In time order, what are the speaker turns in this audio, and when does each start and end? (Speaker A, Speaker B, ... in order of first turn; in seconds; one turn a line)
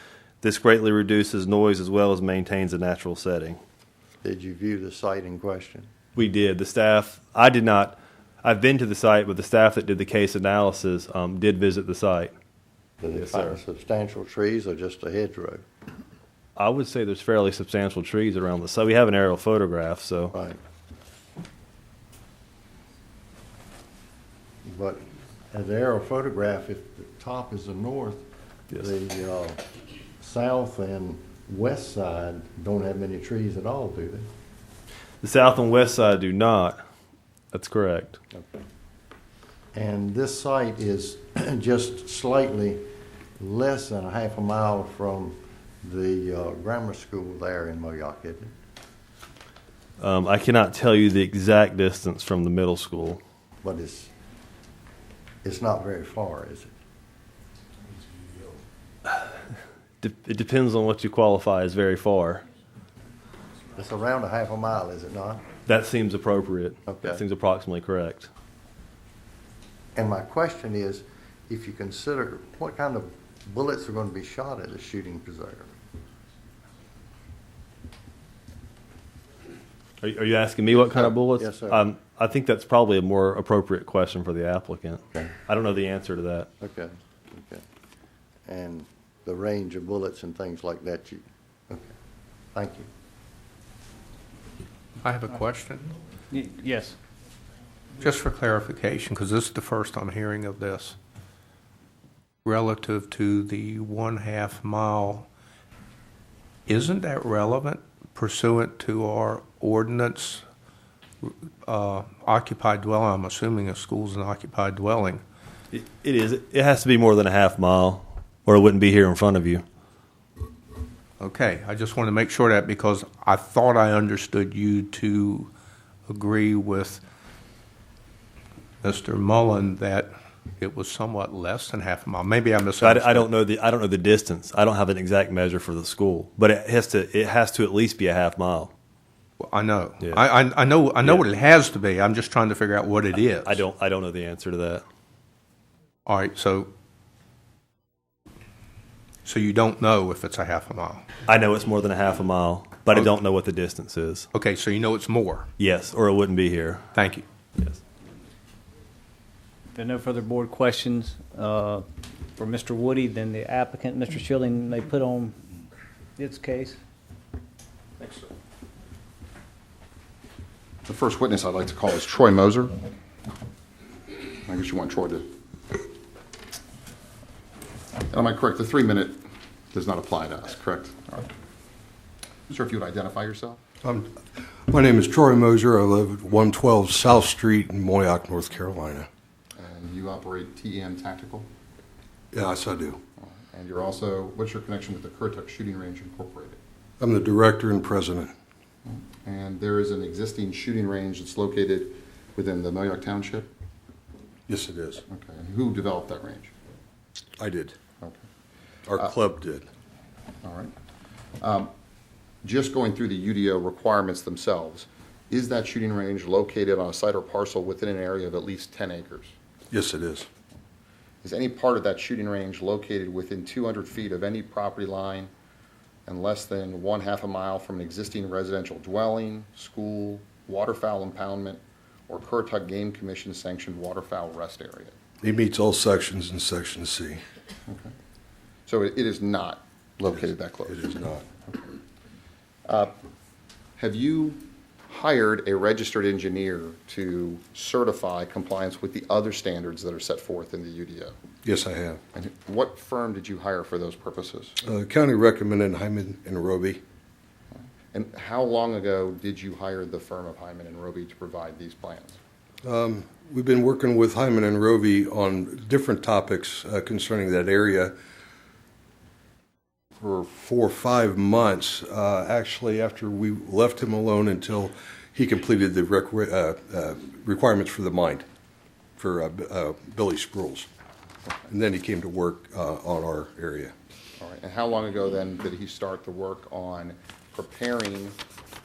Speaker A: 0.4-3.6
Speaker B: 4.2-5.9
Speaker A: 6.2-12.3
Speaker B: 13.0-15.6
Speaker A: 13.2-13.6
Speaker A: 16.6-20.3
Speaker B: 20.3-20.6
Speaker B: 24.6-29.6
Speaker B: 30.2-34.3
Speaker A: 35.2-36.8
Speaker A: 37.5-38.2
Speaker B: 39.7-42.9
Speaker B: 43.4-48.5
Speaker A: 50.0-53.2
Speaker B: 53.6-54.1
Speaker B: 55.4-56.7
Speaker A: 60.0-62.4
Speaker B: 63.8-65.4
Speaker A: 65.7-68.3
Speaker B: 66.9-67.2
Speaker B: 70.0-75.7
Speaker A: 80.0-86.5
Speaker B: 80.9-81.8
Speaker B: 86.6-87.6
Speaker B: 88.5-91.9
Speaker B: 92.5-92.9
Speaker C: 95.0-95.9
Speaker D: 96.3-97.0
Speaker C: 98.0-101.0
Speaker C: 102.4-105.3
Speaker C: 106.7-110.4
Speaker C: 111.2-115.2
Speaker A: 115.7-119.6
Speaker C: 121.2-125.5
Speaker C: 126.1-127.0
Speaker C: 128.8-133.3
Speaker A: 132.8-138.7
Speaker C: 139.4-143.6
Speaker A: 143.4-144.8
Speaker C: 146.1-146.7
Speaker C: 149.2-151.1
Speaker A: 151.3-154.3
Speaker C: 154.3-155.5
Speaker A: 155.6-156.8
Speaker C: 156.9-157.2
Speaker D: 159.7-165.4
Speaker D: 166.2-166.8
Speaker E: 170.9-172.8
Speaker E: 174.5-175.3
Speaker E: 178.1-181.3
Speaker E: 182.5-183.6
Speaker F: 183.8-184.2
Speaker F: 184.7-189.1
Speaker E: 189.6-191.5
Speaker F: 192.3-193.0
Speaker E: 193.2-196.6
Speaker F: 197.0-198.3
Speaker E: 198.9-203.5
Speaker F: 204.5-205.0
Speaker E: 205.1-206.5
Speaker F: 207.4-207.8
Speaker F: 208.9-209.7
Speaker E: 210.4-210.7
Speaker E: 211.4-211.7
Speaker E: 212.4-219.3
Speaker F: 219.7-220.3
Speaker E: 221.2-225.3
Speaker E: 226.1-234.9
Speaker F: 235.2-237.2
Speaker E: 237.7-237.9
Speaker E: 238.7-240.9
Speaker F: 240.2-241.3
Speaker E: 241.5-241.7
Speaker E: 242.7-242.9
Speaker E: 243.8-251.2
Speaker F: 251.4-252.0
Speaker E: 252.1-254.6
Speaker F: 254.6-256.8
Speaker E: 257.9-262.2
Speaker F: 262.6-267.9
Speaker F: 270.0-278.2
Speaker F: 279.0-280.7
Speaker F: 281.5-283.7
Speaker E: 284.2-288.2